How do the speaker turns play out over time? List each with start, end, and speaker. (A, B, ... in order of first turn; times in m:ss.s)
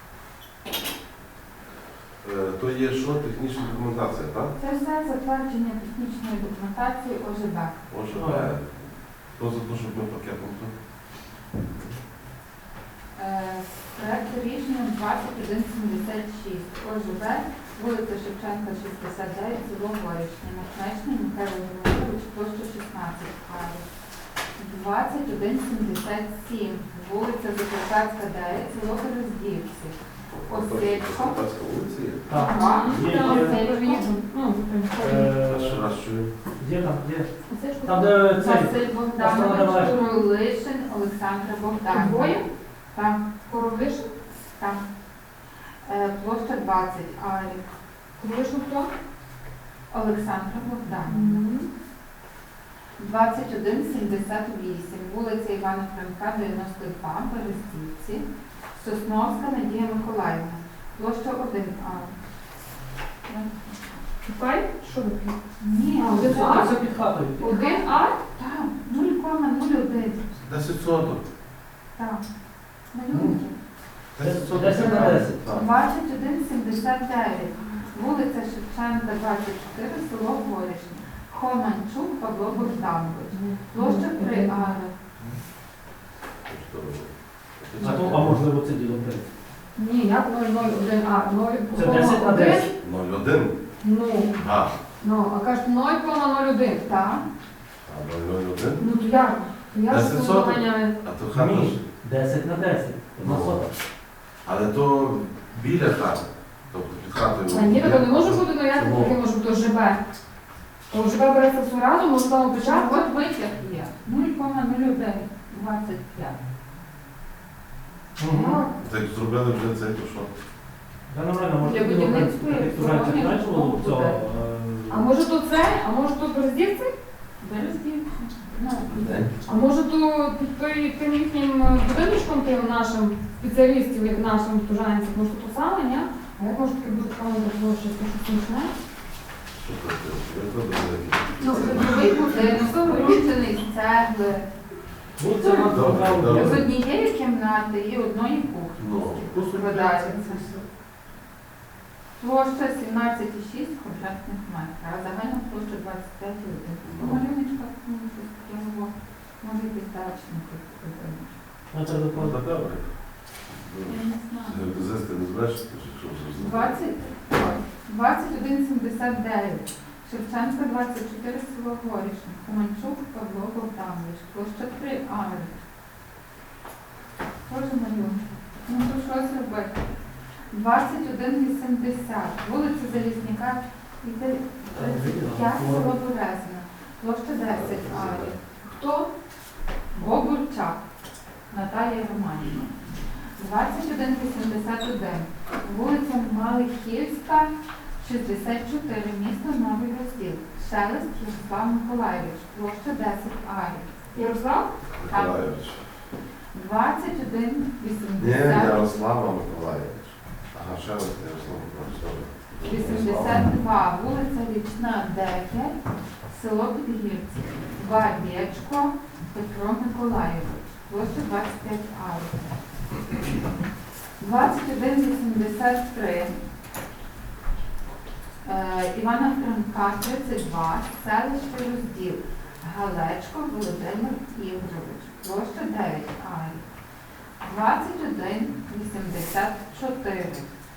0:02.2-0:04.5 A
0:04.6-0:07.9 B
0:07.9-0:11.9 A
0:08.1-0:08.5 C
0:13.2-0:23.9 B
0:24.6-0:31.4 B
0:30.3-0:32.4 A
0:32.3-0:33.6 C
0:32.3-0:34.1 B
0:32.3-0:35.3 D
0:35.0-0:35.9 C
0:35.4-0:36.4 A
0:36.4-0:40.0 C
0:37.5-0:38.3 D
0:38.4-0:43.3 B
0:41.9-0:42.4 D
0:43.5-0:44.1 D
0:44.4-0:44.9 B
0:45.8-0:47.7 B
0:48.2-0:48.9 D
0:49.9-0:51.5 B
0:51.1-0:51.7 D
0:53.0-1:02.2 B
1:03.3-1:04.0 B
1:04.2-1:05.4 D
1:05.6-1:10.3 B
1:06.0-1:08.2 D
1:06.2-1:07.4 C
1:10.4-1:11.2 A
1:12.0-1:12.3 B
1:12.8-1:13.6 B
1:13.1-1:13.4 C
1:14.1-1:15.7 A
1:14.2-1:15.4 C
1:14.7-1:25.0 B
1:23.3-1:24.8 D
1:26.4-1:28.5 A
1:27.8-1:29.2 C
1:29.8-1:32.7 D
1:31.7-1:32.7 C
1:32.3-1:32.6 B
1:32.8-1:34.8 A
1:33.8-1:36.8 D
1:36.7-1:37.3 B
1:37.8-1:38.8 A
1:38.8-1:41.0 D
1:39.9-1:41.8 A
1:41.3-1:43.7 C
1:43.2-1:43.8 A
1:44.4-1:49.2 A
1:47.5-1:50.0 D
1:50.9-1:53.1 D
1:52.5-1:56.4 B
1:58.2-1:58.6 C
1:58.3-1:58.7 D
1:58.8-2:00.3 A
2:01.1-2:05.1 C
2:01.6-2:04.2 B
2:04.9-2:06.9 D
2:07.4-2:09.0 B
2:08.8-2:09.3 A
2:09.4-2:18.7 D
2:19.6-2:21.9 A
2:21.4-2:23.2 D
2:21.5-2:24.5 B
2:25.2-2:26.6 C
2:25.4-2:30.6 B
2:25.7-2:26.7 A
2:28.8-2:30.6 A
2:32.2-2:41.4 B
2:36.8-2:37.2 A
2:41.7-2:42.4 C
2:42.1-2:46.8 A
2:43.8-2:44.8 B
2:46.4-2:55.5 B
2:57.4-2:59.8 B
3:00.5-3:08.4 B
3:04.7-3:05.9 C
3:07.5-3:08.4 A
3:08.8-3:09.1 D
3:09.9-3:10.9 B
3:11.5-3:12.8 B
3:13.4-3:24.3 B
3:24.1-3:24.7 D
3:25.0-3:26.0 A
3:25.1-3:25.5 B
3:26.5-3:28.9 B
3:28.2-3:33.5 A
3:32.6-3:42.6 B
3:44.2-3:46.4 B
3:48.4-3:56.6 B
3:57.4-4:00.5 B